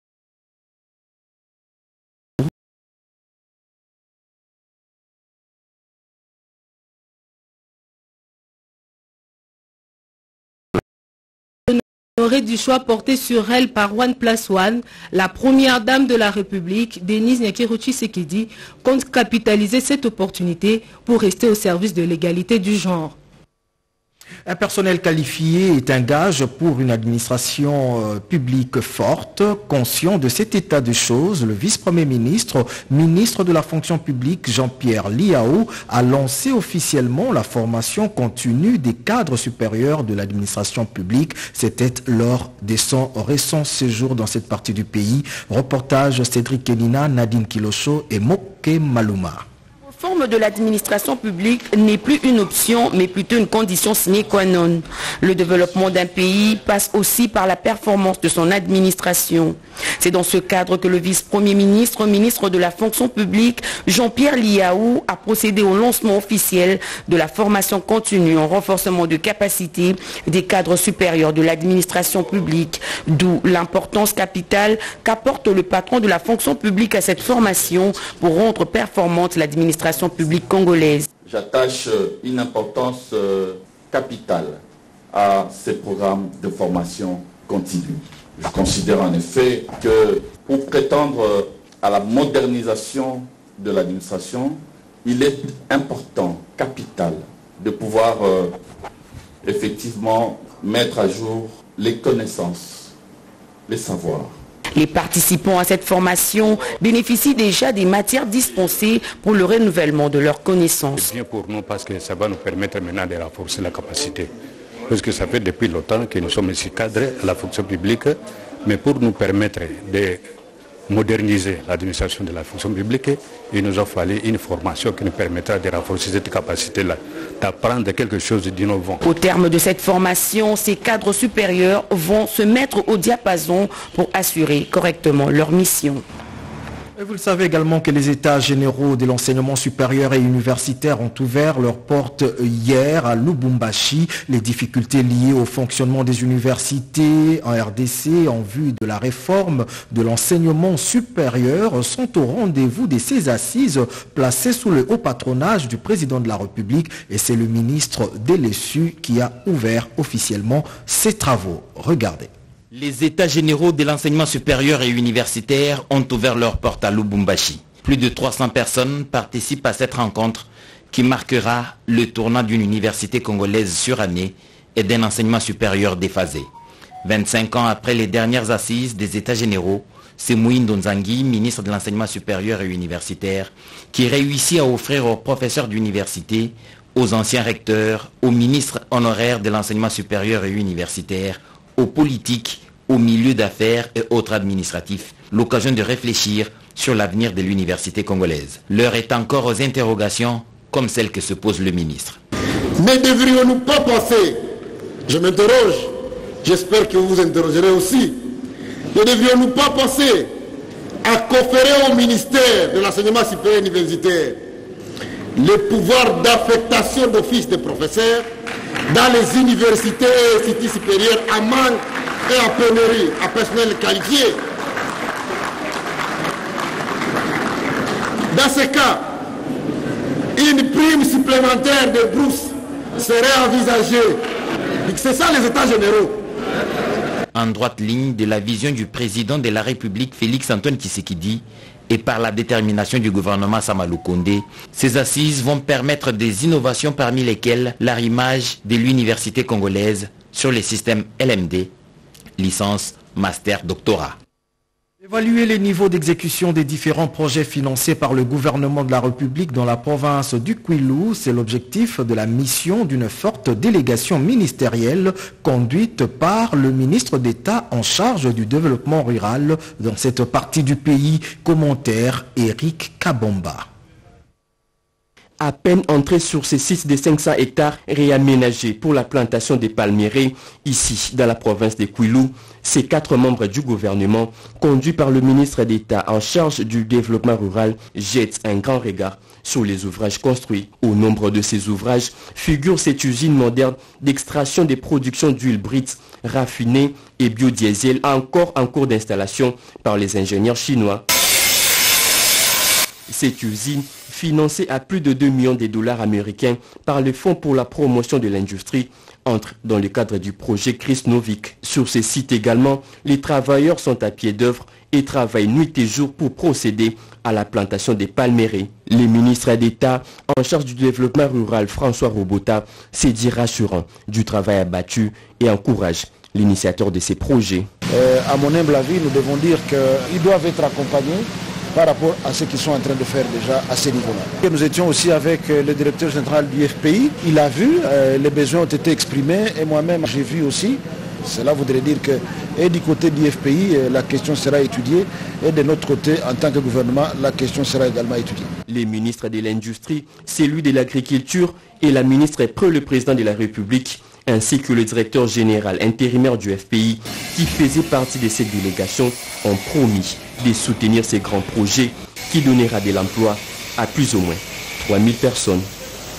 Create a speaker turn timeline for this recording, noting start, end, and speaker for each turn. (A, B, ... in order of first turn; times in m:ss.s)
0:11.7-0:23.2 A
0:24.5-0:49.4 B
0:49.9-1:21.1 C
1:21.2-1:24.6 D
1:25.1-1:38.5 D
1:39.4-1:42.9 D
1:43.7-1:44.3 D
1:44.8-1:51.1 C
1:50.9-1:54.3 E
1:54.9-2:00.2 E
2:00.9-2:09.0 E
2:09.0-2:16.0 C
2:17.0-2:42.3 B
2:42.7-2:56.5 F
2:57.0-3:22.2 F
3:22.8-3:24.4 G
3:25.1-3:28.3 G
3:28.9-3:30.3 G
3:31.0-3:34.4 G
3:35.4-3:38.3 G
3:38.9-3:44.4 G
3:48.3-3:49.0 G
3:50.4-3:54.2 G
3:54.8-3:56.2 G
3:57.3-4:11.7 F
4:12.4-4:14.2 F
4:15.0-4:33.7 B
4:35.4-5:01.0 H
5:03.1-5:27.7 H
5:28.0-5:48.5 I
5:48.7-6:05.7 H